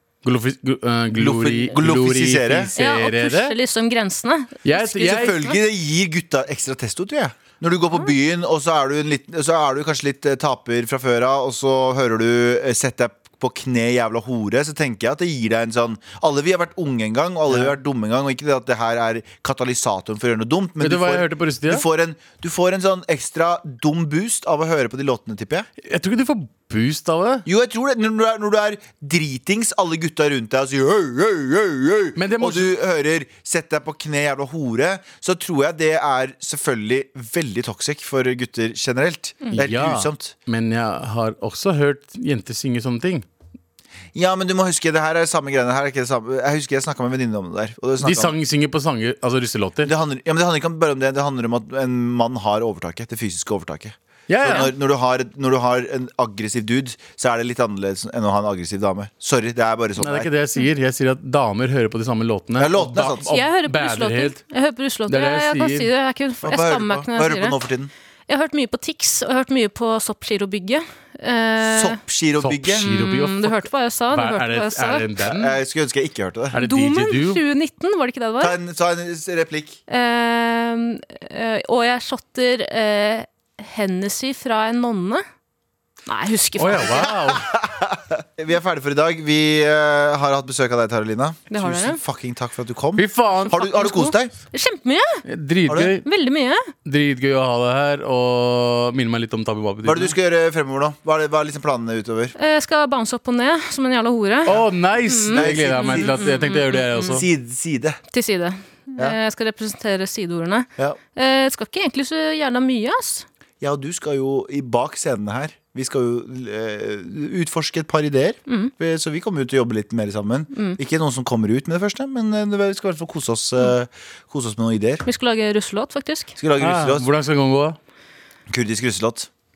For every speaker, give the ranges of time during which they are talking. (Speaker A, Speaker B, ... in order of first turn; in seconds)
Speaker A: 0.2-3.5, 4.6-5.4, 20.8-21.8, 25.8-27.4, 32.1-32.7, 39.5-43.2, 48.0-49.9, 54.3-54.7, 60.0-64.4, 65.1-65.9, 72.4-75.6, 76.5-77.4, 86.6-87.5, 93.0-93.6, 95.2-96.1, 96.8-100.1, 104.5-107.3, 126.6-127.8
Speaker B: 1.1-2.7, 4.9-25.7, 27.4-40.3, 44.1-48.3, 49.8-60.3, 62.6-63.3, 66.4-67.9, 71.6-72.9, 75.2-76.5, 78.4-79.8, 87.0-94.3, 99.8-102.3, 105.3-106.2, 107.0-108.0, 113.6-125.0, 126.4-127.1, 128.5-129.3
Speaker C: 2.8-5.6, 63.3-67.5, 68.3-72.0, 72.8-75.1, 76.5-78.5, 79.9-85.2, 86.0-87.1, 91.5-92.0, 93.5-95.2, 96.0-96.7, 102.3-107.2, 108.1-113.2, 118.5-118.7, 125.0-126.3